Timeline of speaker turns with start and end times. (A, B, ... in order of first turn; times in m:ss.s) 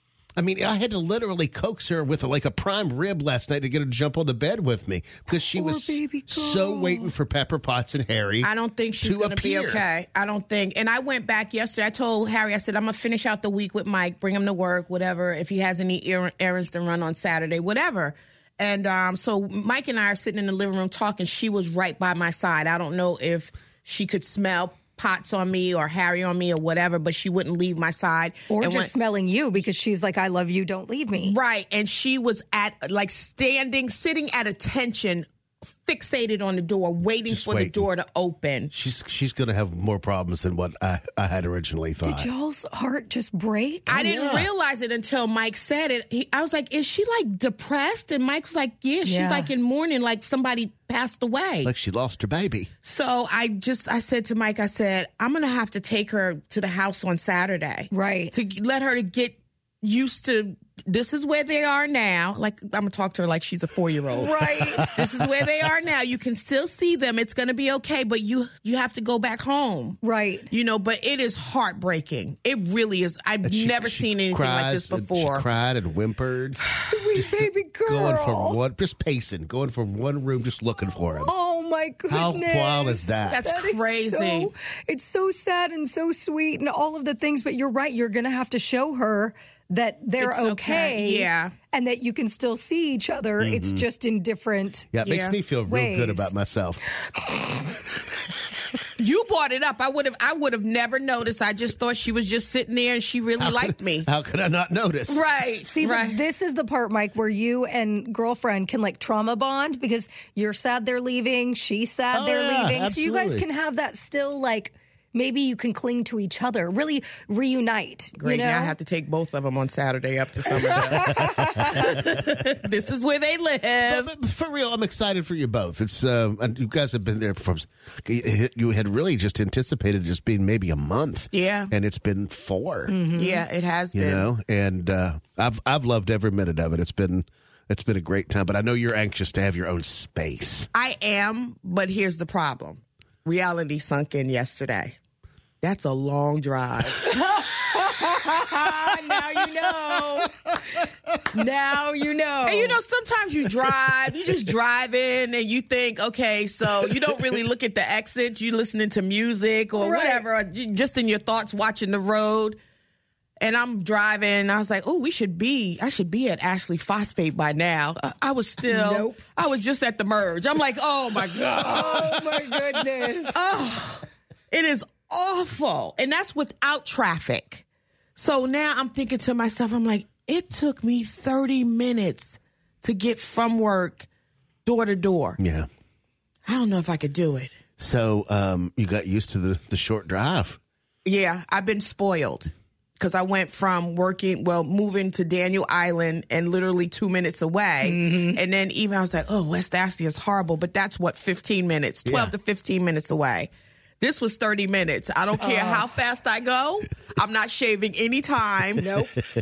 0:00.4-0:08.5 A
0:05.3-0:07.1 B
0:08.4-0:28.9 C
0:09.0-0:09.8 A
0:28.5-0:31.4 B
0:31.2-0:35.3 C
0:35.8-0:38.7 C
0:37.3-0:37.9 A
0:38.7-0:42.3 A
0:42.0-0:44.4 B
0:43.9-0:51.7 C
0:43.9-0:44.5 A
0:49.0-0:49.5 B
0:51.6-0:52.7 A
0:52.8-1:15.5 C
0:57.9-0:58.3 B
1:04.1-1:04.9 B
1:10.0-1:10.5 B
1:13.4-1:21.3 A
1:16.8-1:18.6 B
1:21.1-1:34.9 B
1:22.1-1:23.4 A
1:23.3-1:24.5 C
1:30.2-1:31.5 C
1:33.4-1:33.8 A
1:34.9-1:36.8 A
1:35.0-1:35.4 C
1:35.7-1:36.3 B
1:39.0-1:44.1 C
1:43.4-1:45.2 A
1:45.1-1:46.2 C
1:45.7-1:58.7 B
1:52.1-1:53.4 A
1:58.2-2:04.1 C
2:00.7-2:01.8 B
2:01.0-2:01.9 A
2:03.9-2:13.0 A
2:11.3-2:11.7 C
2:12.9-2:13.5 B
2:13.2-2:14.3 C
2:14.0-2:20.7 A
2:20.7-2:25.0 C
2:25.6-2:30.3 C
2:27.1-2:30.3 B
2:31.3-2:32.8 B
2:32.5-2:42.6 C
2:36.8-2:37.3 A
2:39.8-2:40.2 B
2:43.4-2:52.2 C
2:48.6-2:49.2 B
2:51.6-2:53.4 B
2:53.3-2:57.6 C
2:58.2-3:04.1 C
3:04.6-3:05.4 C
3:05.4-3:05.7 A
3:06.5-3:07.5 C
3:07.8-3:10.6 A
3:11.0-3:23.5 C
3:17.8-3:18.4 B
3:22.0-3:22.3 A
3:24.0-3:28.8 C
3:25.4-3:25.9 B
3:28.8-3:29.2 B